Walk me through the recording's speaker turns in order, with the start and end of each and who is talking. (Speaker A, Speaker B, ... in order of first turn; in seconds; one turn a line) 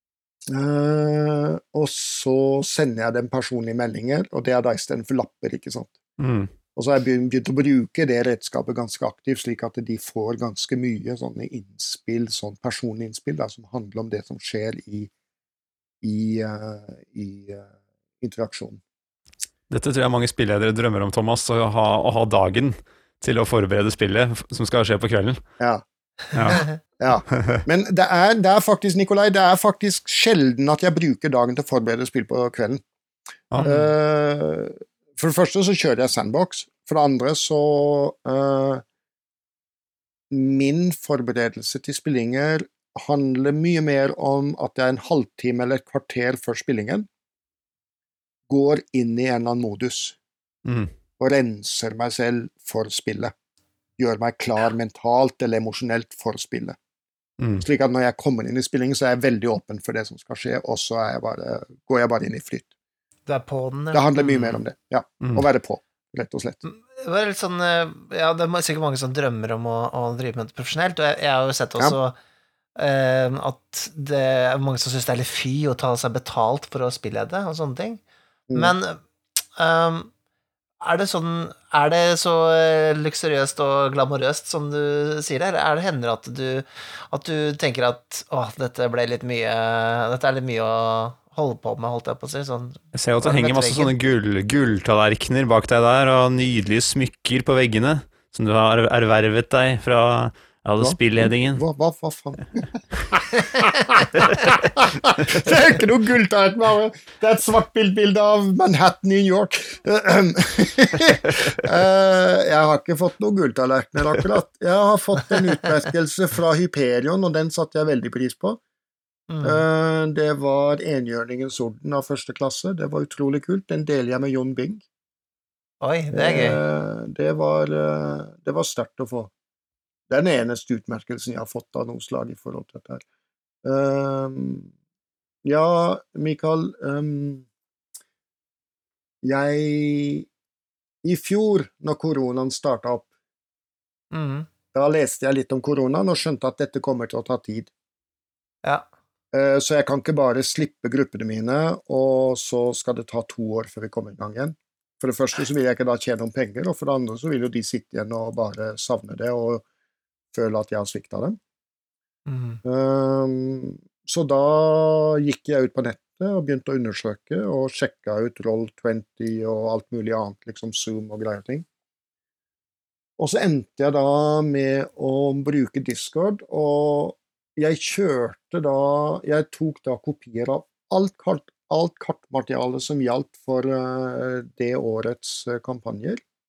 Speaker A: 0.5-6.0
Speaker B: 6.2-6.5
Speaker A: 6.8-15.1
Speaker A: 16.0-17.7
Speaker A: 18.2-18.8
Speaker B: 19.7-25.4
Speaker B: 26.3-26.6
Speaker A: 27.0-32.8
Speaker B: 27.3-27.6
Speaker C: 33.6-33.9
Speaker A: 33.6-38.8
Speaker A: 40.3-47.1
Speaker A: 48.5-50.2
Speaker B: 50.7-50.9
Speaker A: 51.2-53.3
Speaker A: 54.0-56.8
Speaker A: 57.6-62.7
Speaker C: 63.3-64.6
Speaker A: 63.9-66.6
Speaker C: 66.7-72.2
Speaker C: 72.8-78.0
Speaker A: 78.5-78.7
Speaker C: 78.5-80.1
Speaker C: 80.8-93.9
Speaker B: 92.9-101.6
Speaker A: 100.8-118.6
Speaker C: 119.3-119.6
Speaker A: 119.4-124.8
Speaker C: 125.8-126.6
Speaker A: 126.1-129.3
Speaker A: 130.1-133.0
Speaker A: 133.6-134.7
Speaker A: 135.4-137.5
Speaker A: 139.2-140.3
Speaker A: 141.0-143.1
Speaker C: 144.1-144.5
Speaker A: 144.7-147.7
Speaker A: 149.3-159.6
Speaker A: 160.3-161.4
Speaker C: 162.3-162.6
Speaker A: 162.7-171.7
Speaker A: 173.2-186.2